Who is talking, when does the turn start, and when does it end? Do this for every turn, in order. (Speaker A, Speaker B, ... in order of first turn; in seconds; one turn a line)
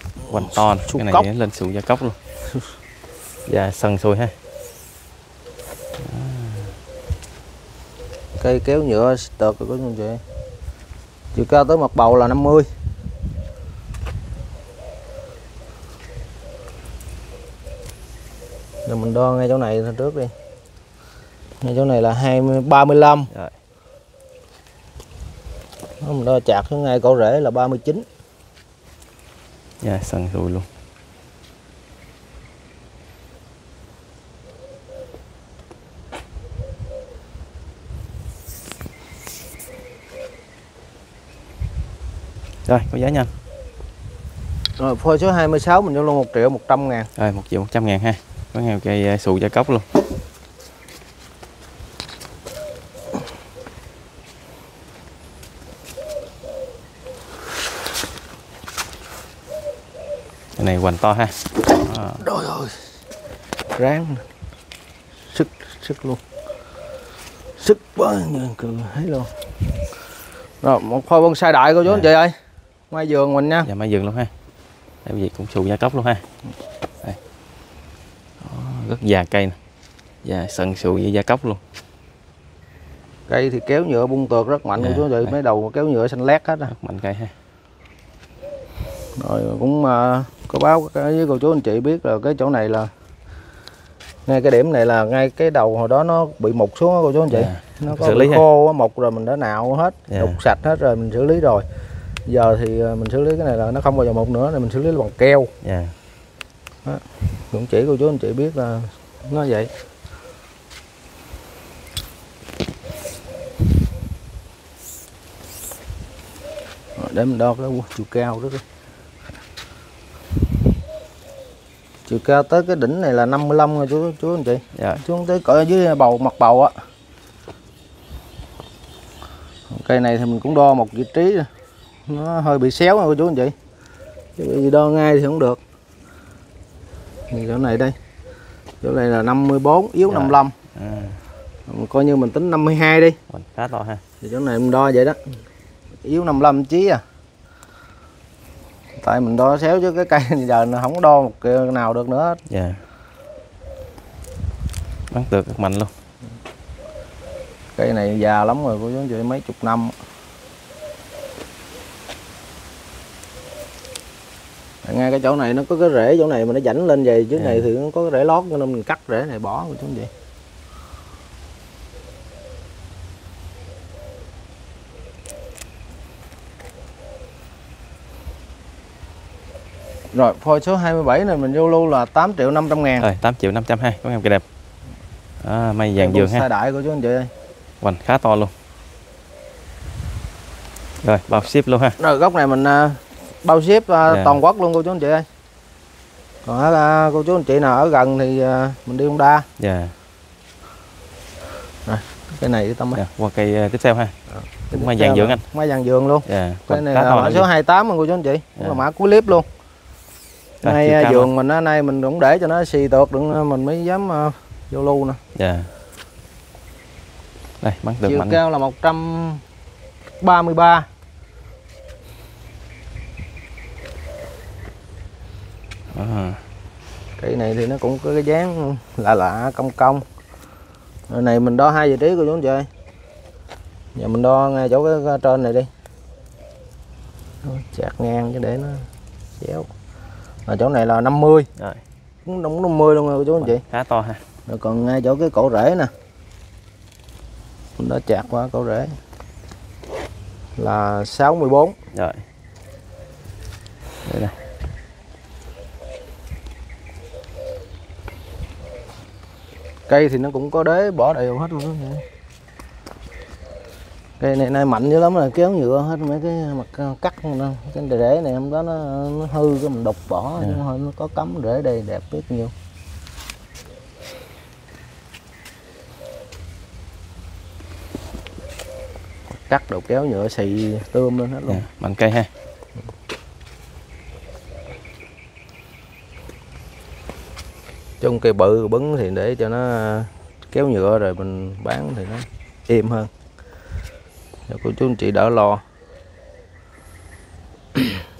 Speaker A: 0.2-1.3
Speaker B: 0.3-2.2
Speaker B: 3.5-4.3
Speaker B: 6.0-6.7
Speaker A: 8.4-10.2
Speaker A: 11.3-12.7
Speaker A: 18.9-20.3
Speaker A: 21.6-23.3
Speaker A: 26.0-28.1
Speaker B: 29.8-30.7
Speaker B: 42.6-43.3
Speaker A: 44.8-47.1
Speaker B: 47.1-49.9
Speaker B: 60.6-62.2
Speaker A: 62.2-62.8
Speaker A: 63.8-64.2
Speaker A: 65.3-66.2
Speaker A: 67.6-69.3
Speaker A: 70.6-72.3
Speaker B: 71.8-72.1
Speaker A: 72.9-73.7
Speaker B: 73.6-74.3
Speaker B: 75.0-76.2
Speaker B: 78.4-79.6
Speaker B: 80.2-81.6
Speaker A: 83.3-86.7
Speaker B: 84.8-85.3
Speaker B: 86.7-87.3
Speaker A: 89.2-92.9
Speaker A: 94.3-101.7
Speaker B: 97.3-98.5
Speaker B: 100.1-100.4
Speaker A: 102.2-105.5
Speaker B: 105.6-105.9
Speaker A: 106.8-109.7
Speaker A: 117.0-118.6
Speaker A: 122.1-126.7
Speaker B: 124.7-125.0
Speaker A: 129.7-131.5
Speaker A: 132.1-133.5
Speaker A: 134.4-135.6
Speaker A: 137.3-137.9
Speaker A: 138.8-140.5
Speaker B: 140.1-141.2
Speaker A: 141.7-143.2
Speaker B: 143.3-144.0
Speaker A: 144.2-145.2
Speaker A: 146.0-147.0
Speaker A: 149.0-152.4
Speaker B: 152.5-152.8
Speaker B: 155.1-155.9
Speaker A: 157.8-159.9
Speaker A: 164.8-170.1
Speaker B: 167.3-167.7
Speaker A: 180.1-183.1
Speaker B: 183.0-184.4
Speaker B: 185.4-186.4
Speaker A: 186.0-187.3
Speaker B: 187.8-188.5
Speaker B: 191.0-192.0
Speaker A: 192.0-195.2
Speaker B: 194.1-194.4
Speaker A: 196.4-199.5
Speaker B: 199.6-199.9
Speaker A: 201.8-203.0
Speaker B: 202.9-204.1
Speaker A: 204.4-209.5
Speaker B: 204.7-205.4
Speaker B: 206.2-207.5
Speaker B: 210.6-211.3
Speaker A: 210.6-215.2
Speaker B: 215.3-215.7
Speaker B: 217.6-218.4
Speaker A: 218.0-219.4
Speaker A: 220.2-220.9
Speaker B: 225.9-226.4
Speaker A: 227.2-230.0
Speaker A: 231.1-232.7
Speaker A: 233.9-235.7
Speaker A: 237.4-238.9
Speaker A: 239.4-239.7
Speaker A: 240.5-241.5
Speaker B: 241.6-241.8
Speaker A: 242.2-243.6
Speaker B: 243.4-244.2
Speaker A: 244.5-245.9
Speaker A: 247.8-248.9
Speaker A: 250.6-251.8
Speaker B: 251.9-252.2
Speaker B: 254.0-254.3
Speaker A: 259.9-262.0
Speaker A: 264.2-272.5
Speaker A: 279.4-281.6
Speaker B: 281.5-282.3
Speaker A: 288.0-293.1
Speaker A: 294.5-295.6